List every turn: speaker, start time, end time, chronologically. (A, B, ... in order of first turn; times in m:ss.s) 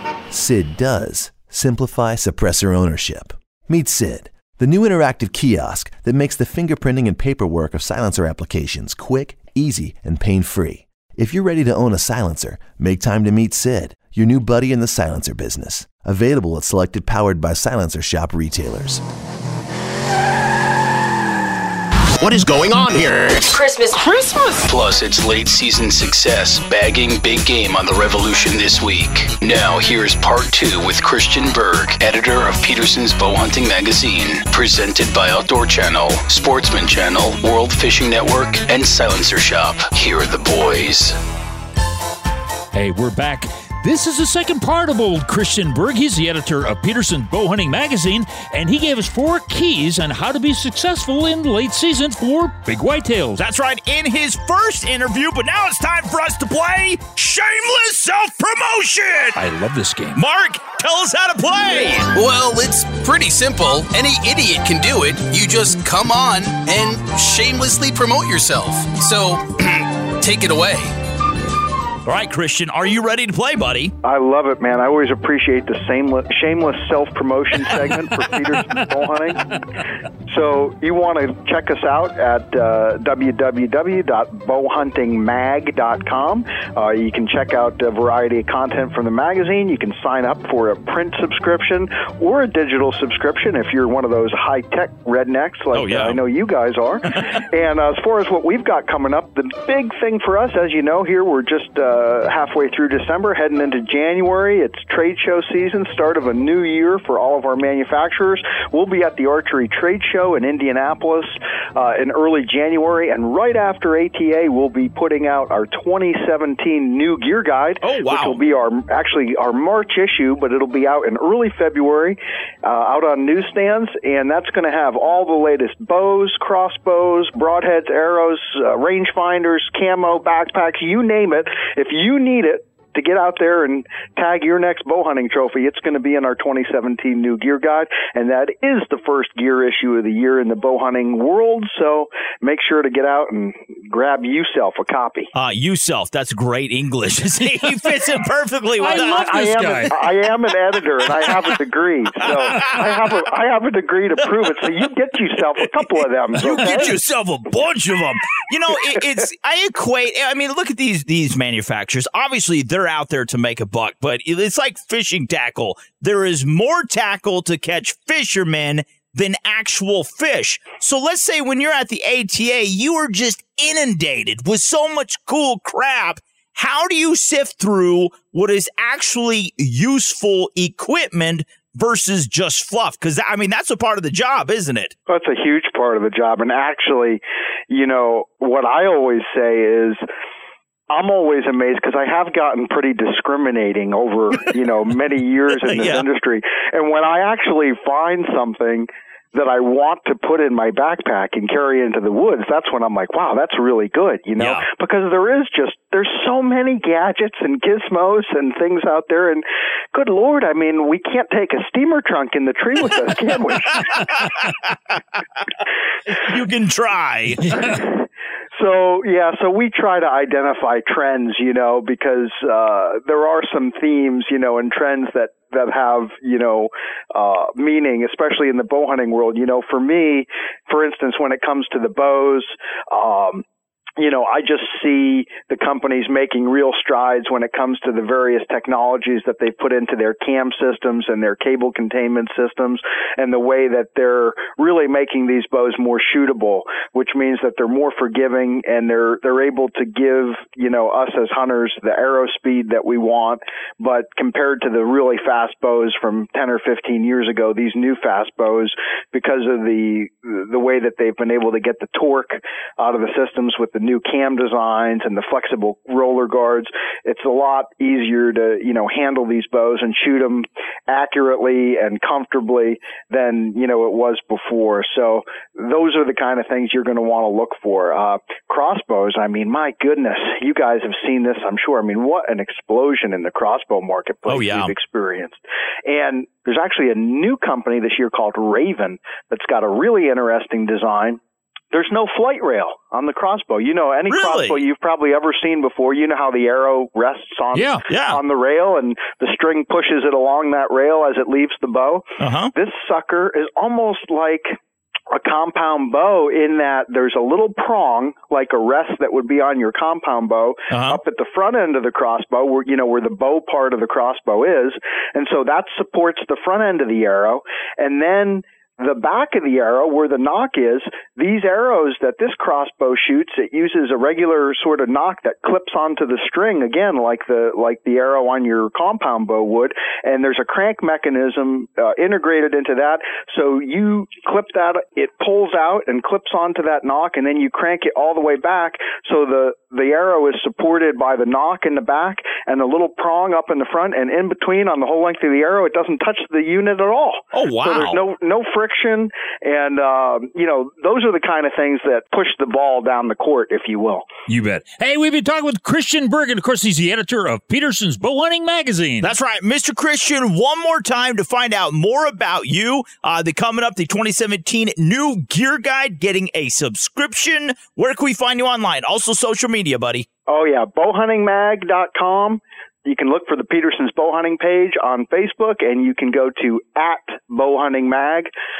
0:00.3-0:19.0 A
0:24.6-0:41.2 B
0:42.7-0:53.4 C
0:53.4-0:59.4 D
0:59.4-1:00.2 C
1:00.2-1:02.1 D
1:02.1-1:10.9 E
1:12.0-1:13.9 D
1:14.0-1:19.4 F
1:20.3-2:25.3 F
1:35.7-1:36.2 D
1:57.8-1:58.4 D
2:25.3-2:29.9 D
2:28.8-2:30.0 C
2:28.9-2:37.0 F
2:32.2-2:32.7 D
2:36.4-3:04.9 D
2:36.5-2:36.9 C
3:05.1-3:10.0 F
3:10.9-3:34.3 F
3:15.6-3:16.1 D
3:36.1-3:37.6 D
3:37.4-3:37.7 C
3:37.6-3:38.0 F
3:38.6-3:53.4 F
3:54.0-4:51.2 F
4:44.3-4:44.7 D
4:51.7-5:04.5 F
4:54.1-4:54.6 D
4:57.5-4:57.8 C
4:57.9-4:58.2 D
5:02.2-5:02.5 D
5:05.1-5:54.0 F
5:10.7-5:11.0 D
5:47.3-5:48.0 D
5:54.3-5:59.1 C
5:59.0-6:10.0 D
6:10.3-6:18.3 F